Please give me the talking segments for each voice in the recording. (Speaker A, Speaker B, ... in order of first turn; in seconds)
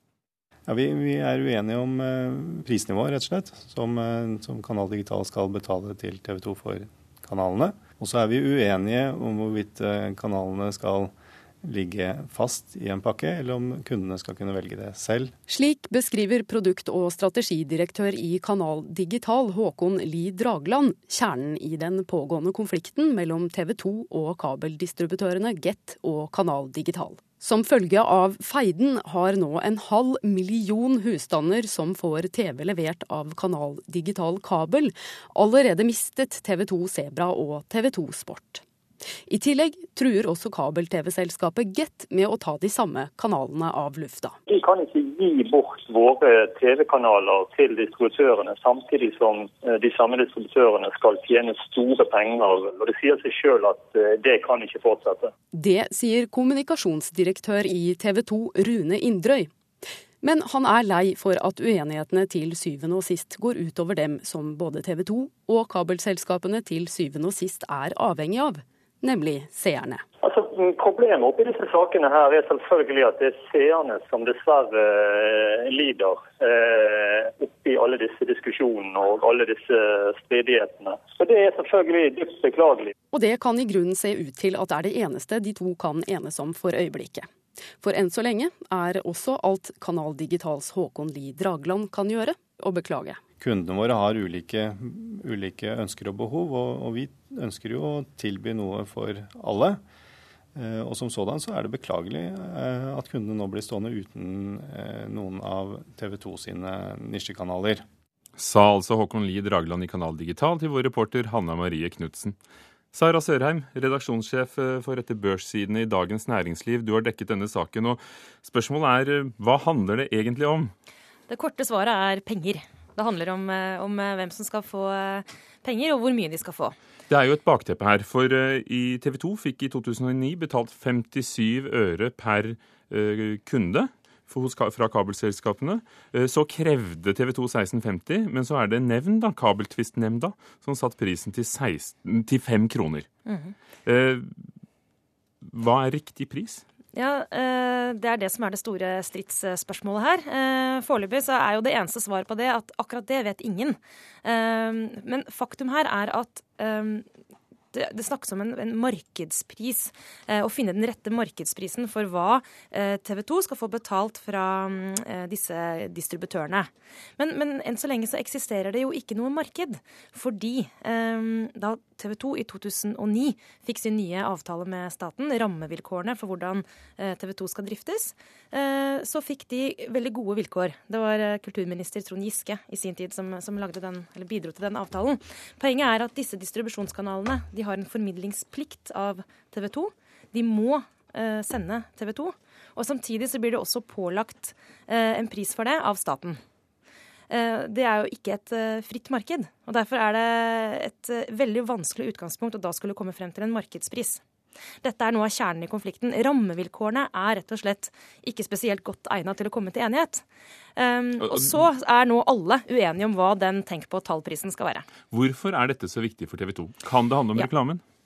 Speaker A: 0.7-15.3, 93.4-99.8, 100.5-107.8
Speaker B: 15.5-38.6, 39.3-44.3, 55.5-59.5, 60.2-70.0, 83.1-93.2
Speaker C: 44.5-55.3, 70.2-82.9
Speaker D: 108.4-112.3, 112.9-120.7, 127.1-143.1, 143.8-144.3, 145.4-146.6, 215.1-217.8
Speaker E: 121.3-126.7, 143.2-143.5, 146.9-157.1, 157.7-196.4, 197.3-204.2, 204.8-210.2, 210.8-214.9